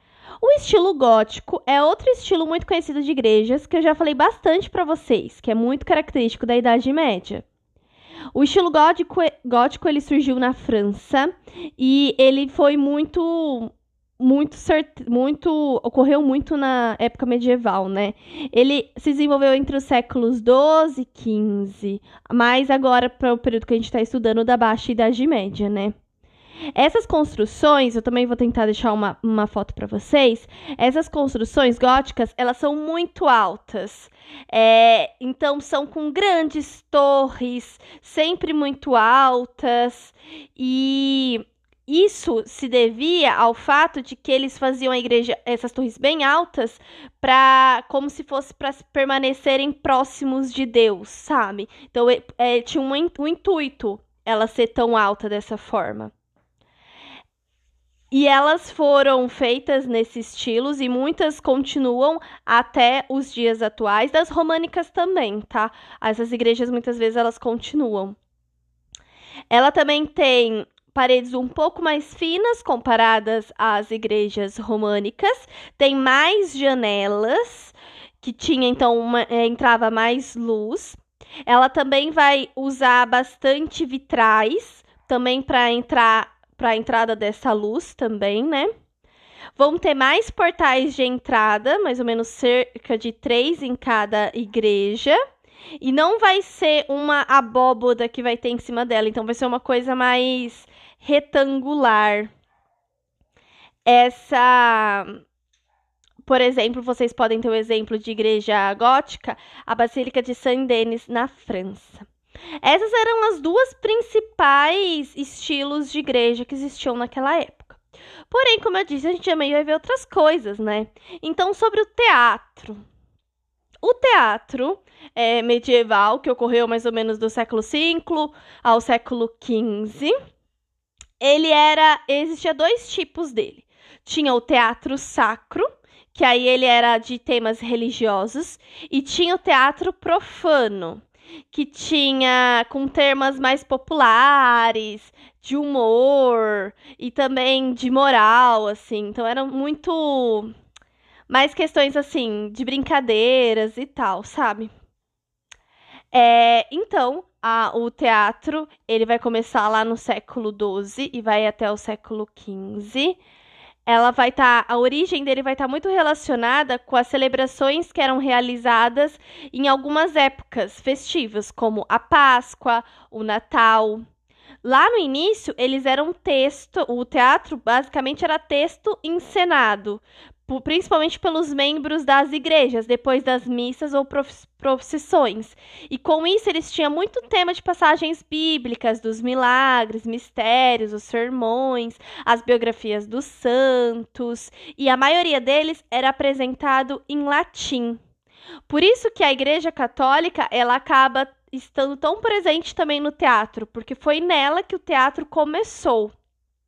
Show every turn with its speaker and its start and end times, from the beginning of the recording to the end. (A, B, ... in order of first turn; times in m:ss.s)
0:00.4-0:07.4 A
0:08.3-0:26.0 A
0:26.7-0:56.1 A
0:58.1-1:08.2 A
1:09.5-1:28.7 A
1:29.6-1:35.2 A
1:35.8-1:42.3 A
1:43.9-1:45.2 A
1:46.2-1:52.0 A
1:52.6-2:02.8 A
2:03.8-2:10.1 A
2:11.2-2:30.5 A
2:31.3-2:34.7 A
2:36.1-2:43.2 A
2:43.9-2:54.0 A
2:54.6-3:18.0 A
3:18.7-3:26.1 A